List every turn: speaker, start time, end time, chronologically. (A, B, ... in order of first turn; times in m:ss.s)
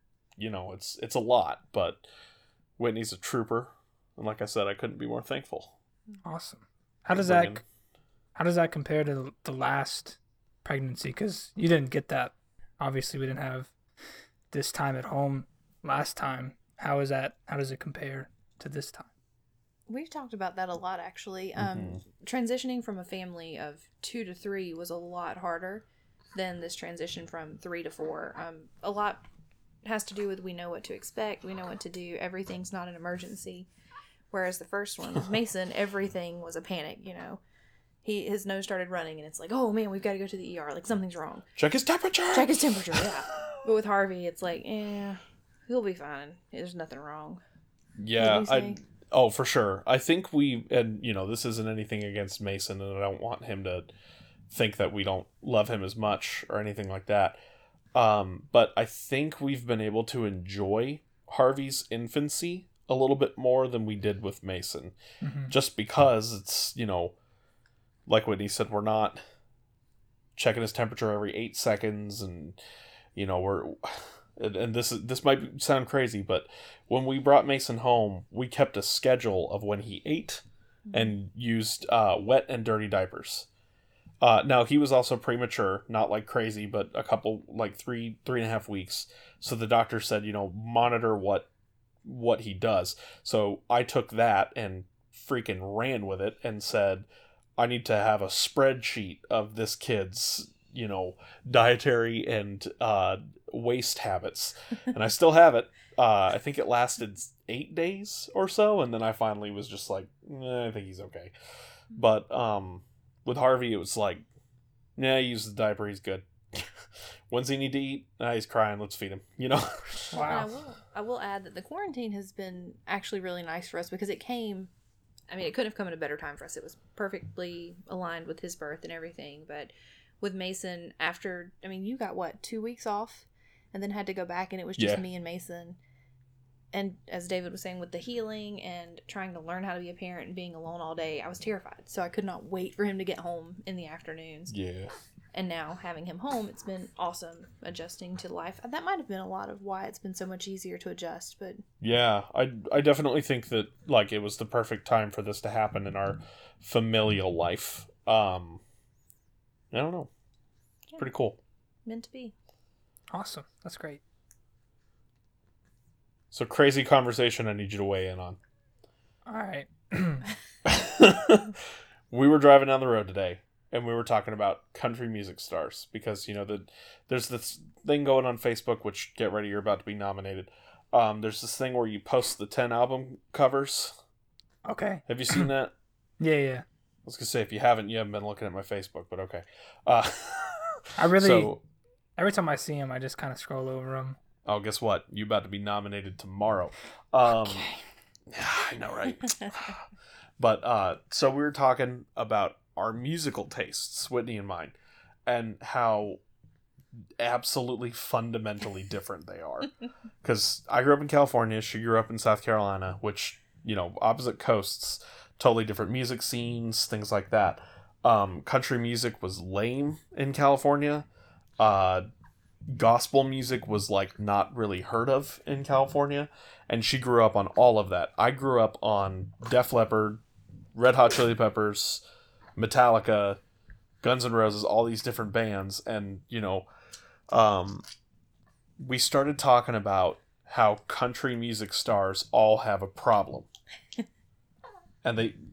0:00.4-0:02.0 A
0:02.8-0:05.7 A
0:06.2-0:07.6 B
0:07.1-0:07.6 A
0:08.4-0:13.7 B
0:14.5-0:19.1 B
0:19.9-0:29.2 C
0:21.6-0:22.0 A
0:29.8-0:33.7 C
0:34.3-0:37.4 C
0:38.0-0:41.5 C
0:41.6-0:43.1 A
0:42.3-0:47.4 C
0:48.0-0:53.9 A
0:48.2-0:48.8 C
0:54.5-0:57.4 A
0:58.0-1:05.0 A
1:05.2-1:05.5 B
1:05.5-1:07.1 A
1:08.1-1:09.2 A
1:10.4-1:12.6 A
1:13.2-1:23.5 A
1:24.2-1:31.5 A
1:32.0-1:51.3 A
1:51.9-1:54.2 A
1:55.0-2:00.2 A
2:00.1-2:00.5 B
2:00.1-2:04.7 C
2:05.3-2:15.8 C
2:14.8-2:15.0 A
2:16.7-2:24.5 C
2:24.5-2:24.9 A
2:25.3-2:31.6 C
2:31.8-2:38.6 A
2:39.7-2:40.1 A
2:41.0-2:41.4 A
2:41.8-2:42.3 C
2:43.1-2:44.0 B
2:46.3-2:48.4 A
2:49.2-2:50.3 B
2:50.6-3:04.0 A
3:04.6-3:05.5 B
3:05.1-3:05.7 A
3:06.2-3:06.6 B
3:07.0-3:11.6 A
3:11.0-3:11.5 B
3:12.2-3:14.2 B
3:14.4-3:17.7 A
3:17.4-3:17.8 B
3:18.3-3:19.8 A
3:20.4-3:24.8 A
3:25.3-3:26.2 A
3:27.2-3:29.7 A
3:30.2-3:41.0 A
3:41.6-3:42.1 A
3:42.7-3:50.2 A
3:50.8-3:52.0 A
3:52.6-3:53.4 A
3:54.0-3:56.7 A
3:57.3-3:57.8 A
3:58.8-4:03.5 A
4:05.0-4:05.4 A